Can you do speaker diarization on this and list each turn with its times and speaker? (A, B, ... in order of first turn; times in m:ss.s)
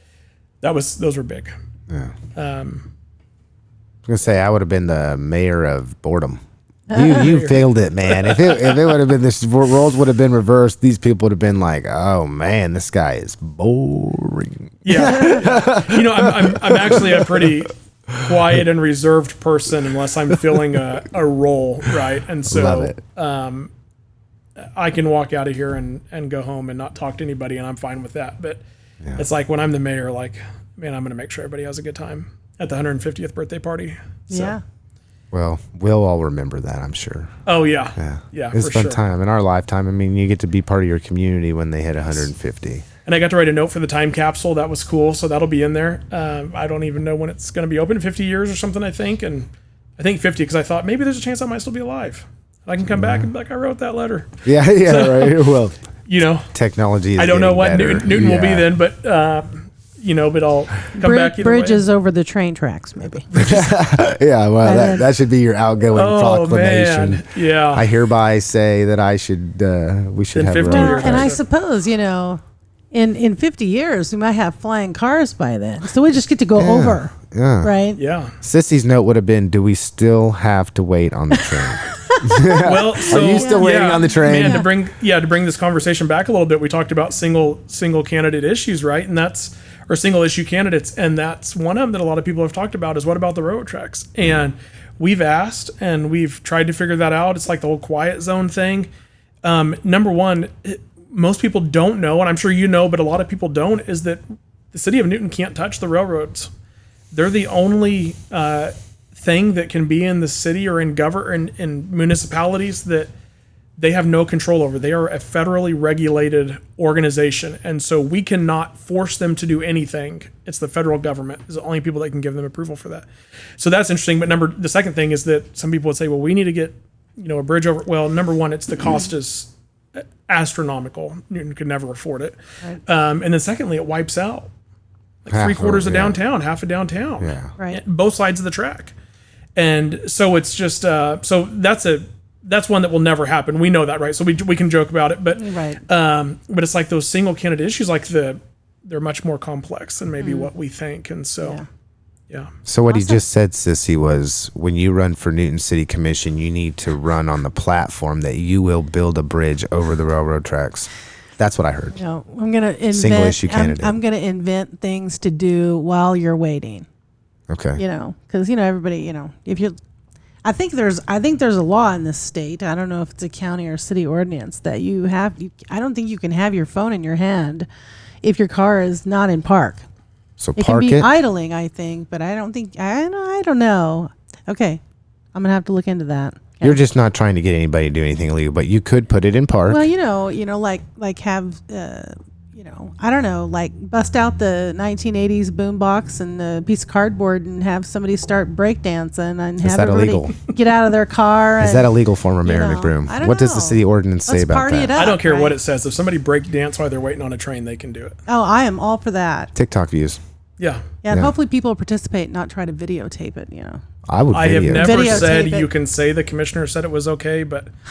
0:00.6-0:01.5 A
0:02.4-0:02.9 A
0:04.1-0:17.4 B
0:07.0-0:08.9 A
0:14.8-0:23.7 A
0:22.5-0:23.0 B
0:24.8-0:28.6 A
0:29.2-0:34.6 A
0:34.3-0:34.6 C
0:35.3-0:37.3 B
0:37.5-0:39.0 A
0:38.0-0:42.8 B
0:43.0-0:55.4 A
0:52.9-0:53.3 B
0:54.4-0:55.8 B
0:56.1-0:56.5 A
0:56.5-0:58.7 B
0:57.2-1:01.8 A
1:01.0-1:03.3 C
1:03.0-1:03.8 A
1:03.4-1:11.3 B
1:04.6-1:05.1 C
1:05.9-1:07.9 A
1:10.3-1:11.4 A
1:10.6-1:12.4 C
1:12.9-1:18.0 C
1:16.6-1:17.7 B
1:18.0-1:18.3 A
1:18.4-1:24.6 B
1:21.4-1:22.6 C
1:22.6-1:38.9 A
1:23.1-1:24.7 C
1:39.4-1:44.2 A
1:44.7-1:46.5 A
1:47.1-1:53.1 A
1:53.8-2:03.1 A
2:03.6-2:14.5 A
2:15.2-2:18.9 A
2:15.3-2:16.2 B
2:17.2-2:17.5 B
2:19.6-2:31.6 A
2:25.4-2:25.8 C
2:30.2-2:30.5 C
2:32.7-2:42.0 B
2:32.9-2:33.2 C
2:42.0-2:46.9 C
2:42.9-2:44.0 B
2:47.5-2:47.8 B
2:47.8-2:49.8 C
2:50.4-2:57.7 C
2:58.2-2:59.8 C
3:00.4-3:01.1 B
3:00.6-3:04.8 C
3:05.3-3:06.8 C
3:06.6-3:09.9 B
3:09.7-3:21.9 C
3:19.6-3:20.3 B
3:21.6-3:24.9 B
3:22.4-3:25.6 C
3:25.0-3:28.1 A
3:28.3-3:29.5 C
3:29.6-3:30.2 B
3:30.6-3:30.8 A
3:31.0-3:33.8 C
3:34.1-3:35.3 B
3:34.3-3:37.7 A
3:34.7-3:35.7 C